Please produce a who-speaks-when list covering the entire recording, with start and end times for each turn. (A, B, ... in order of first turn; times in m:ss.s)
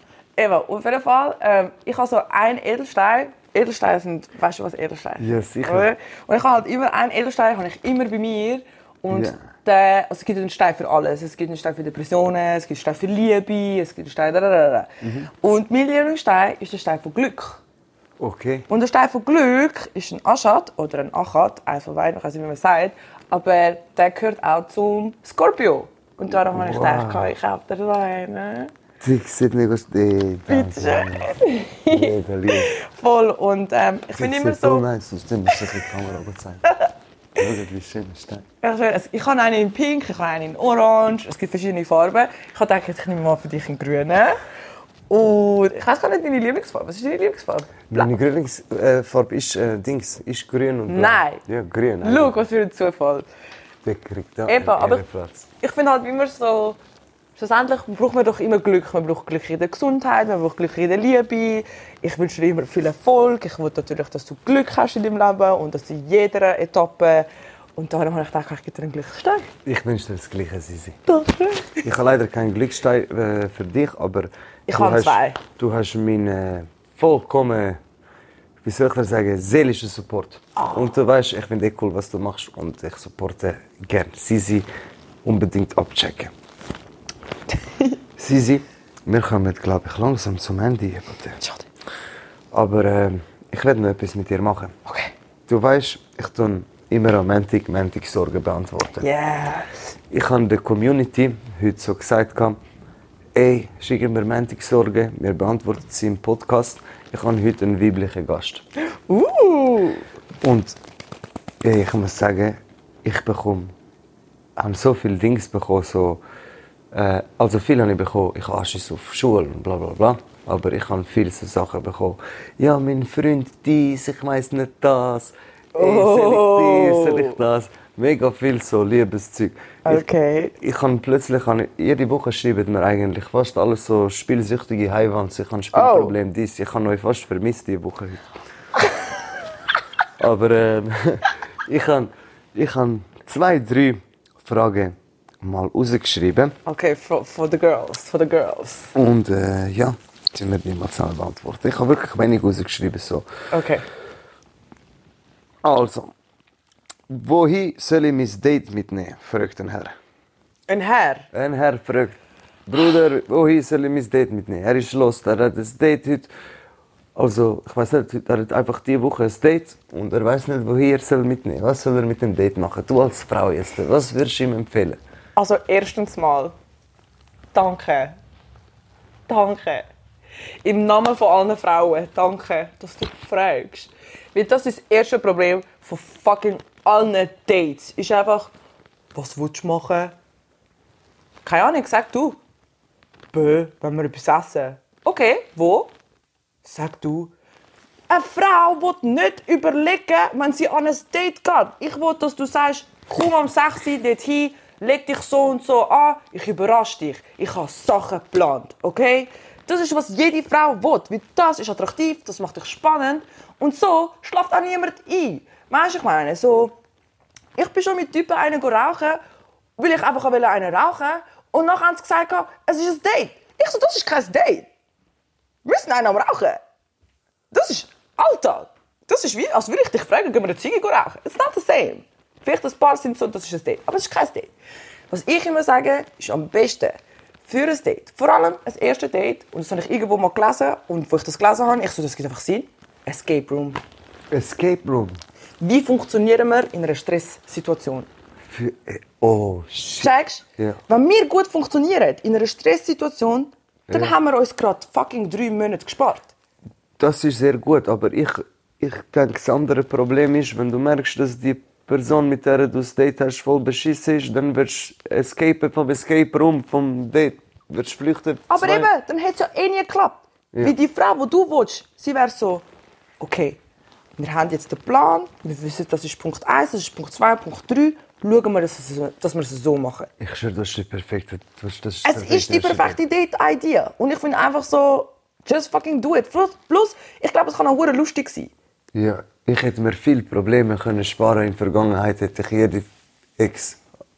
0:00.4-0:17.6 A
0:05.2-0:05.9 B
0:09.1-0:09.4 B
0:15.0-0:15.3 B
0:18.2-0:18.7 B
0:18.7-0:28.7 A
0:26.5-0:27.3 B
0:29.0-0:32.7 B
0:30.5-0:34.9 A
0:34.2-0:36.7 B
0:37.4-0:38.4 B
0:38.6-0:44.4 A
0:45.1-0:48.1 A
0:47.9-0:52.4 B
0:50.9-0:51.4 A
0:52.0-0:53.3 A
0:53.8-0:55.5 B
0:54.5-0:55.0 A
0:55.6-0:56.8 A
0:57.4-1:09.5 A
1:09.6-1:11.0 B
1:11.1-1:11.8 A
1:11.8-1:17.8 B
1:14.7-1:15.4 A
1:18.6-1:24.7 B
1:25.2-1:26.3 B
1:27.5-1:28.0 A
1:28.2-1:31.4 B
1:31.4-1:31.6 A
1:32.5-1:34.7 B
1:34.8-1:35.1 A
1:35.5-1:39.1 B
1:39.0-1:39.8 A
1:40.1-1:42.6 B
1:43.3-1:48.6 B
1:49.1-1:50.0 A
1:50.4-1:50.8 B
1:51.6-1:53.7 B
1:54.6-1:56.2 B
1:56.9-2:10.0 B
2:05.7-2:07.4 A
2:09.8-2:10.5 A
2:10.5-2:18.3 B
2:15.7-2:16.1 A
2:20.2-2:26.5 B
2:26.6-2:28.9 A
2:28.9-2:33.3 B
2:33.5-2:33.8 A
2:35.6-2:36.1 B
2:37.1-2:39.9 B
2:40.7-2:41.3 A
2:41.3-2:46.3 B
2:47.2-2:55.0 B
2:55.4-2:56.5 A
2:57.5-2:58.1 A
2:59.3-2:59.9 A
3:00.6-3:08.5 A
3:09.1-3:10.2 A
3:11.4-3:12.4 A
3:13.3-3:15.9 A
3:16.6-3:17.3 A
3:18.1-3:36.7 A
3:37.6-3:39.2 A
3:39.8-3:44.7 A
3:45.6-3:46.6 A
3:47.5-3:54.5 A
3:55.1-4:03.8 A
4:04.3-4:05.2 B
4:05.6-4:08.1 A
4:08.5-4:10.8 B
4:10.0-4:16.3 A
4:13.9-4:14.1 B
4:17.0-4:28.9 B
4:28.5-4:32.6 A
4:33.2-4:33.6 A
4:34.2-4:40.1 A
4:40.2-4:43.0 B
4:42.0-4:48.5 A
4:48.9-4:52.8 B
4:53.4-4:53.8 B